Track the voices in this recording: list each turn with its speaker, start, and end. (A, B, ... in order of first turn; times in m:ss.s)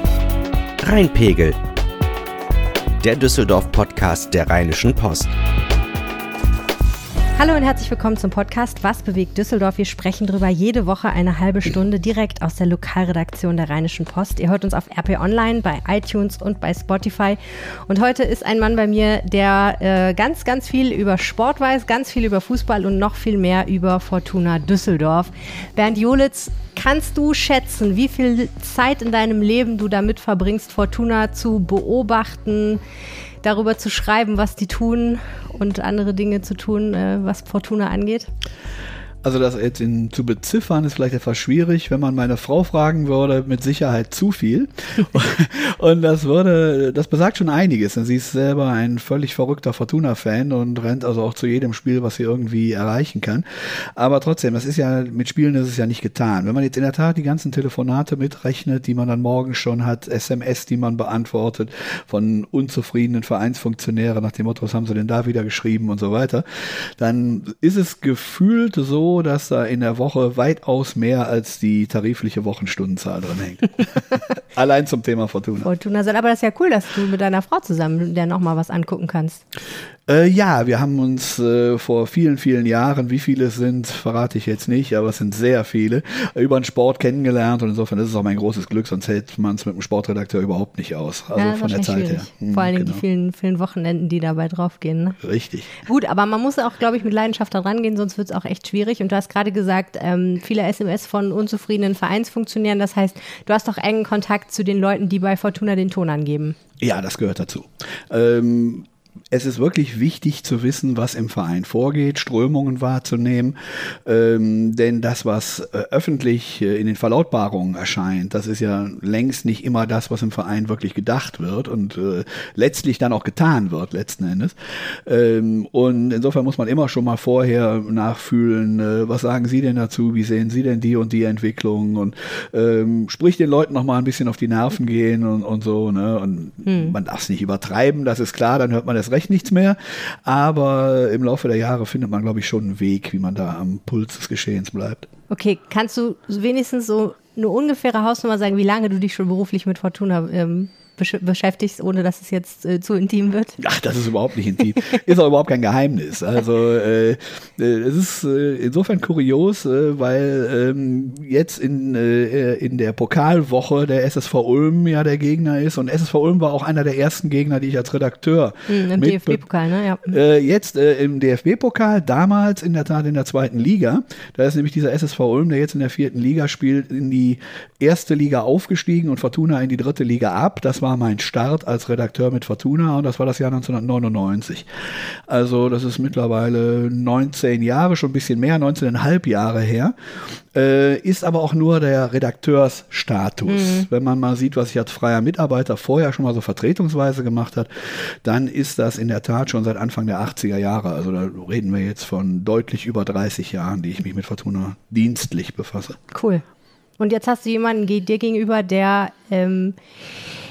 0:00.8-0:01.6 A
0:03.0-0:05.3 A
0:07.4-0:32.8 B
0:33.4-0:38.3 B
0:39.2-1:15.7 C
1:15.6-1:19.4 B
1:20.1-1:33.0 C
1:31.3-1:35.2 B
1:35.2-1:35.7 C
1:35.8-1:46.6 B
1:46.8-2:25.1 C
2:16.6-2:16.9 B
2:25.3-2:33.6 B
2:33.6-2:49.4 C
2:48.7-2:50.1 B
2:50.0-3:09.9 C
3:10.5-3:26.0 C
3:13.5-3:13.8 B
3:26.1-3:26.4 B
3:27.0-3:29.8 B